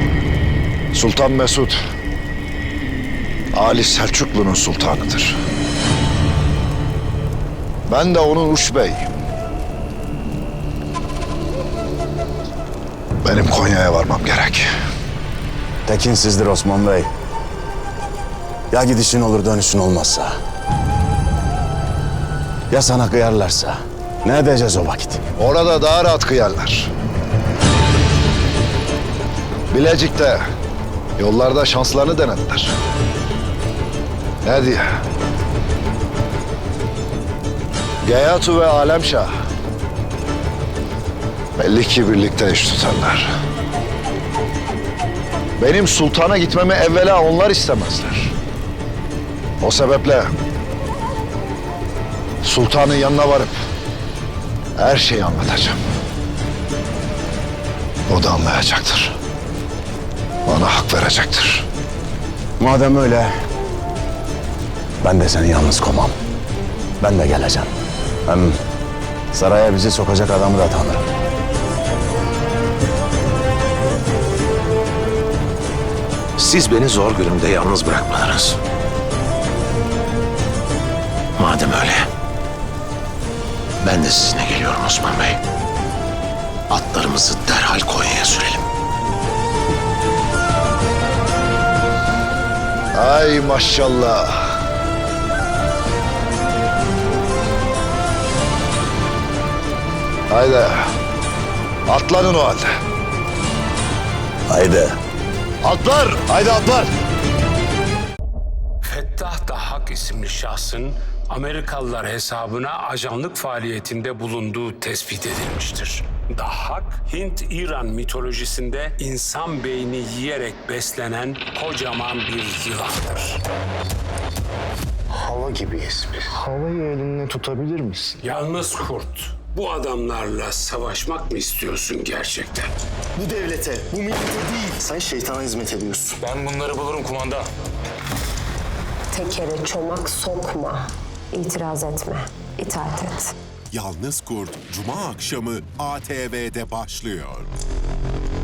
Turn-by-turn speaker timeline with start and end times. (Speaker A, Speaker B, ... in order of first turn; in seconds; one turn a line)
Speaker A: 0.9-1.8
Speaker A: 3.5-5.4
Speaker A: 7.9-9.1
Speaker A: 13.2-14.7
Speaker B: 15.8-17.1
Speaker B: 18.7-20.3
Speaker B: 22.7-25.2
Speaker A: 25.4-26.9
Speaker A: 29.7-30.4
Speaker A: 31.2-32.7
Speaker A: 34.4-34.8
Speaker A: 38.0-39.3
Speaker A: 41.6-43.3
Speaker A: 45.6-48.3
Speaker A: 49.6-50.3
Speaker A: 52.4-53.5
Speaker A: 54.8-55.8
Speaker A: 58.1-59.1
Speaker A: 60.5-61.6
Speaker B: 62.6-63.3
Speaker B: 65.0-66.2
Speaker B: 67.0-67.7
Speaker B: 68.3-68.6
Speaker B: 69.3-71.1
Speaker C: 76.4-78.6
Speaker C: 81.4-82.1
Speaker C: 83.8-85.4
Speaker C: 86.7-88.6
Speaker A: 92.9-94.5
Speaker A: 100.3-100.8
Speaker A: 101.9-102.7
Speaker B: 104.5-105.0
Speaker A: 105.6-106.9
Speaker D: 108.9-123.4
Speaker E: 125.1-128.2
Speaker D: 128.2-132.7
Speaker E: 133.2-137.5
Speaker F: 139.1-143.3
Speaker G: 143.7-147.5